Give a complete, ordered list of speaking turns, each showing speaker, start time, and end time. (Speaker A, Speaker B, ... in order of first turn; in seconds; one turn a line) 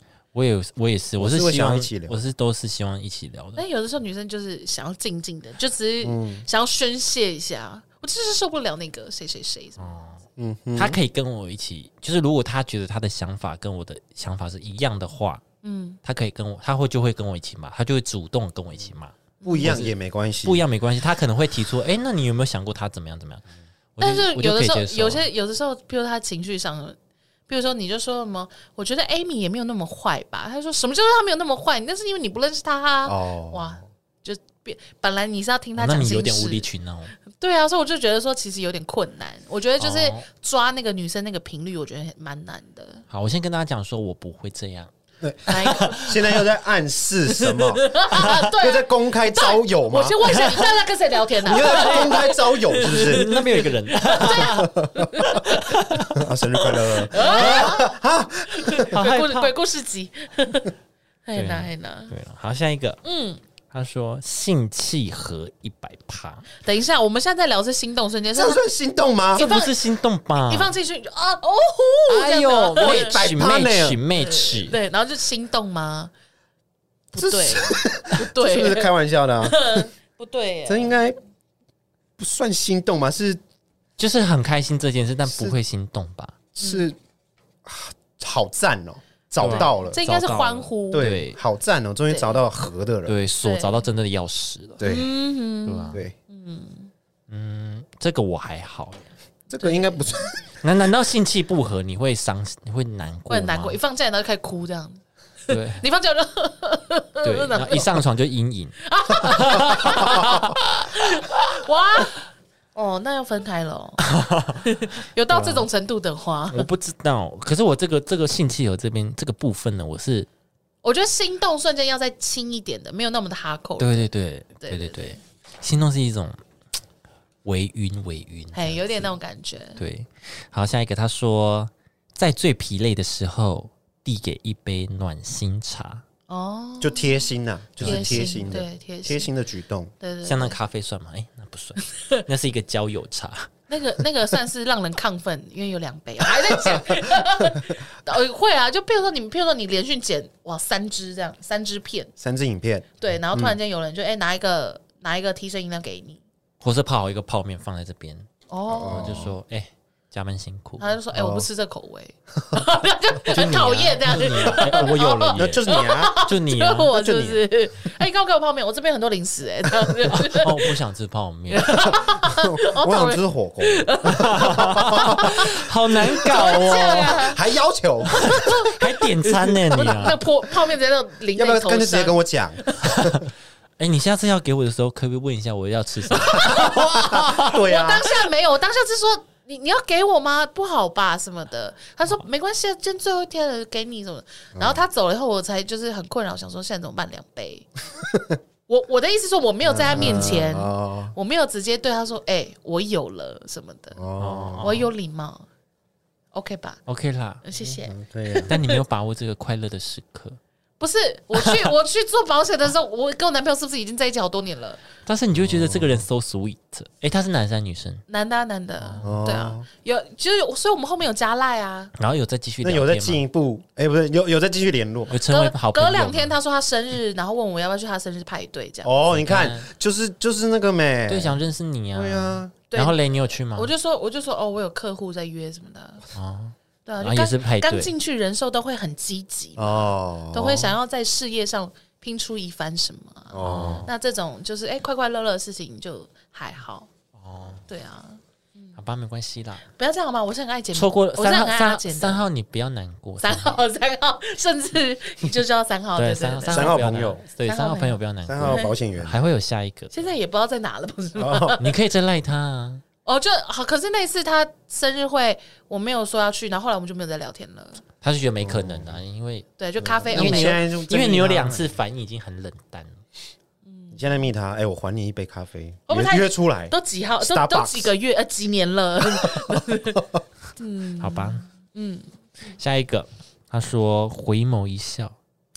Speaker A: 0.3-3.6
Speaker B: 1.2-2.2
Speaker C: 3.5-9.9
Speaker B: 6.0-6.5
Speaker A: 9.8-10.2
Speaker B: 10.4-11.0
Speaker A: 10.8-15.4
Speaker C: 15.6-16.0
Speaker A: 16.0-23.4
Speaker C: 19.4-19.8
Speaker B: 19.4-20.6
Speaker A: 23.9-25.2
Speaker C: 24.0-26.9
Speaker C: 27.5-36.7
Speaker B: 33.0-33.7
Speaker A: 35.8-37.1
Speaker C: 37.3-43.0
Speaker A: 39.8-40.2
Speaker A: 43.1-44.9
Speaker B: 45.2-50.2
Speaker C: 45.5-46.0
Speaker A: 45.5-46.4
Speaker C: 47.6-56.0
Speaker A: 48.1-48.4
Speaker A: 50.2-50.7
Speaker B: 51.4-53.3
Speaker A: 51.5-56.3
Speaker B: 54.2-55.1
Speaker B: 56.1-59.0
Speaker C: 56.9-57.9
Speaker A: 57.1-57.8
Speaker C: 58.5-60.7
Speaker A: 58.9-59.5
Speaker C: 61.2-62.1
Speaker A: 61.3-63.0
Speaker C: 63.0-63.4
Speaker A: 63.7-66.5
Speaker C: 66.6-68.6
Speaker B: 68.3-69.5
Speaker C: 69.3-69.7
Speaker A: 69.3-70.7
Speaker C: 70.5-73.2
Speaker A: 72.1-74.8
Speaker B: 72.8-74.0
Speaker C: 74.1-76.1
Speaker C: 77.1-81.0
Speaker B: 77.2-79.8
Speaker B: 80.7-81.2
Speaker B: 82.2-83.4
Speaker A: 84.0-86.4
Speaker B: 85.3-85.5
Speaker B: 86.5-87.0
Speaker C: 86.6-86.9
Speaker B: 87.6-90.0
Speaker A: 89.4-91.4
Speaker C: 89.4-91.1
Speaker B: 90.9-93.2
Speaker C: 92.1-92.4
Speaker A: 93.0-94.9
Speaker C: 93.4-93.8
Speaker B: 94.8-95.1
Speaker C: 94.8-96.9
Speaker A: 95.6-96.0
Speaker A: 97.3-99.0
Speaker B: 99.5-100.4
Speaker C: 99.6-100.0
Speaker A: 100.6-103.8
Speaker C: 103.3-108.0
Speaker A: 105.5-105.8
Speaker A: 107.2-110.6
Speaker C: 108.8-114.0
Speaker A: 114.0-114.6
Speaker C: 114.6-116.7
Speaker A: 115.3-115.7
Speaker A: 116.5-120.3
Speaker C: 120.8-124.1
Speaker A: 123.8-126.4
Speaker C: 124.6-125.2
Speaker A: 127.4-129.1
Speaker C: 128.5-129.8
Speaker A: 129.8-136.0
Speaker C: 136.3-139.3
Speaker B: 136.8-139.9
Speaker A: 137.8-138.4
Speaker C: 140.0-140.6
Speaker A: 140.2-143.5
Speaker C: 143.7-152.1
Speaker B: 146.5-147.4
Speaker B: 152.2-153.6
Speaker C: 153.0-156.2
Speaker A: 156.6-158.3
Speaker C: 158.5-159.3
Speaker B: 158.7-159.3
Speaker A: 158.8-160.9
Speaker C: 160.8-170.7
Speaker B: 161.1-161.5
Speaker A: 163.3-165.7
Speaker B: 165.3-166.2
Speaker A: 166.2-166.9
Speaker B: 166.9-167.4
Speaker A: 170.1-172.0
Speaker C: 171.5-175.5
Speaker B: 172.1-175.5
Speaker A: 174.0-177.3
Speaker C: 176.1-177.4
Speaker B: 176.2-178.6
Speaker C: 178.1-183.1
Speaker A: 178.1-180.2
Speaker B: 181.3-183.2
Speaker A: 182.9-183.2
Speaker A: 183.8-187.6
Speaker C: 186.1-197.7
Speaker B: 186.2-188.1
Speaker B: 194.6-194.8
Speaker B: 198.0-198.4
Speaker C: 198.7-204.0
Speaker B: 199.6-201.1
Speaker B: 203.9-204.7
Speaker A: 204.2-204.9
Speaker C: 204.6-205.5
Speaker C: 206.3-206.8
Speaker A: 206.9-207.4
Speaker C: 207.4-208.8
Speaker B: 207.6-208.5
Speaker A: 208.4-210.4
Speaker C: 210.8-214.8
Speaker A: 211.4-211.7
Speaker A: 215.1-218.0
Speaker B: 215.4-216.0
Speaker C: 218.1-221.9
Speaker B: 219.0-219.7
Speaker A: 221.9-223.2
Speaker B: 222.6-225.1
Speaker A: 225.1-226.4
Speaker C: 225.2-228.9
Speaker B: 228.8-231.4
Speaker A: 229.1-229.7
Speaker A: 231.1-233.7
Speaker B: 231.9-232.5
Speaker C: 232.7-233.0
Speaker C: 233.5-236.0
Speaker A: 236.1-237.9
Speaker C: 236.8-246.9
Speaker B: 239.6-240.7
Speaker B: 243.3-243.9
Speaker A: 243.4-243.9
Speaker A: 247.2-247.6
Speaker C: 247.7-248.7
Speaker A: 248.8-249.6
Speaker C: 249.7-252.2
Speaker A: 250.7-253.6
Speaker C: 253.2-256.8
Speaker A: 255.9-259.9
Speaker B: 256.5-257.2
Speaker C: 257.4-258.7
Speaker B: 258.3-259.2
Speaker C: 259.9-261.7
Speaker B: 261.1-261.6
Speaker A: 261.6-262.8
Speaker C: 263.0-267.8
Speaker A: 268.0-269.5
Speaker B: 268.4-269.0
Speaker C: 269.6-270.6
Speaker B: 269.8-271.6
Speaker A: 270.1-273.0
Speaker C: 273.6-274.2
Speaker B: 273.9-277.9
Speaker C: 275.9-280.0
Speaker B: 279.2-280.0
Speaker C: 280.6-282.1
Speaker A: 281.0-281.4
Speaker A: 282.6-285.1